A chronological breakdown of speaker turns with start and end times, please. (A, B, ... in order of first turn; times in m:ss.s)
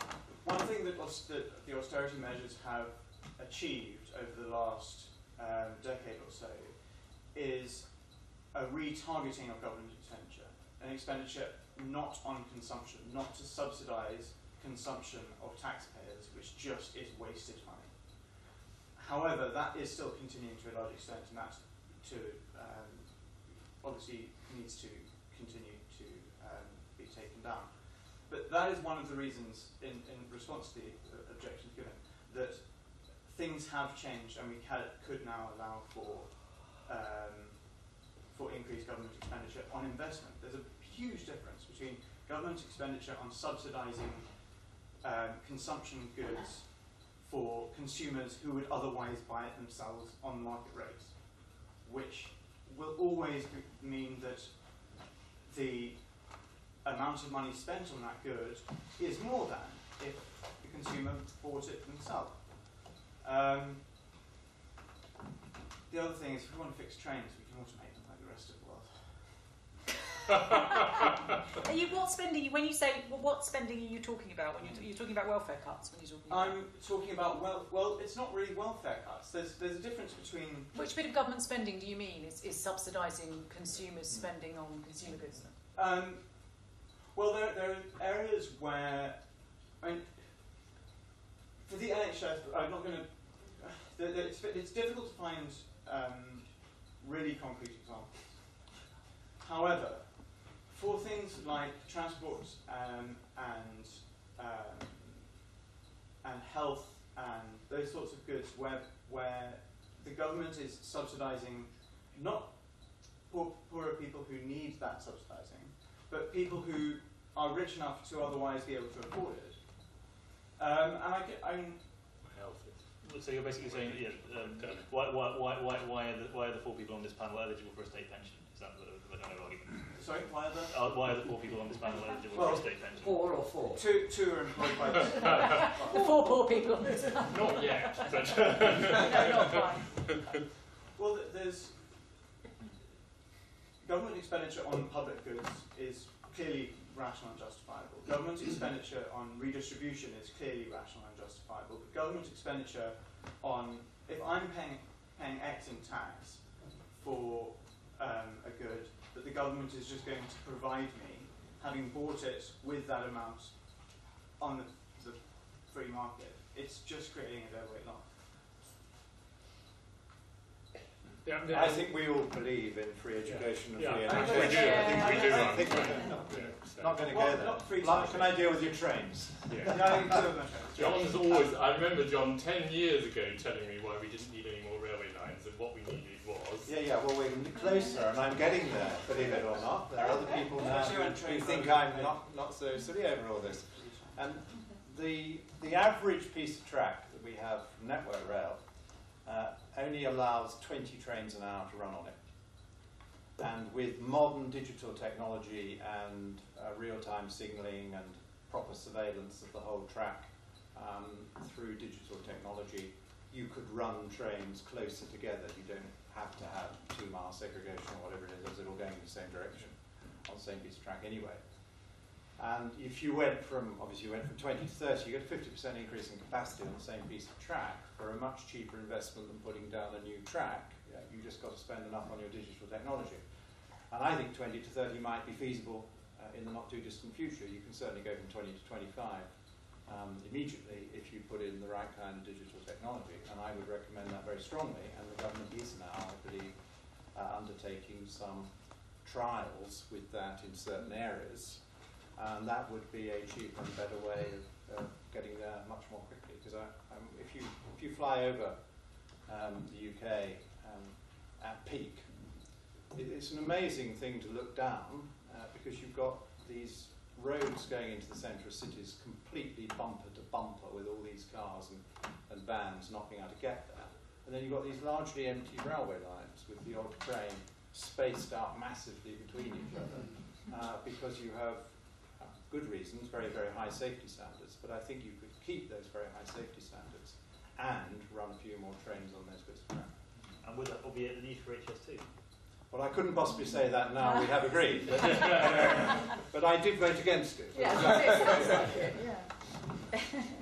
0:00.3-1:04.1 A
1:05.9-1:09.6 A
1:11.6-1:16.6 B
1:16.3-1:20.7 A
1:20.7-1:25.5 B
1:25.7-1:30.8 A
1:31.6-1:45.5 A
1:46.2-2:02.2 A
2:02.2-2:04.9 C
2:03.0-2:13.4 D
2:09.9-2:10.8 A
2:12.3-2:17.2 A
2:15.8-2:20.2 B
2:17.3-2:19.4 C
2:18.9-2:20.2 A
2:20.9-2:22.3 A
2:23.7-2:48.6 A
2:51.2-2:52.2 C
2:51.4-3:00.0 E
2:53.2-2:57.1 C
2:53.9-3:01.5 A
2:54.4-2:55.9 B
2:59.5-3:00.1 C
3:00.7-3:06.8 C
3:06.6-4:50.0 E
3:10.1-3:12.3 A
3:13.5-3:14.1 A
4:50.4-4:52.0 D
4:52.7-4:58.9 E
4:57.5-5:00.0 B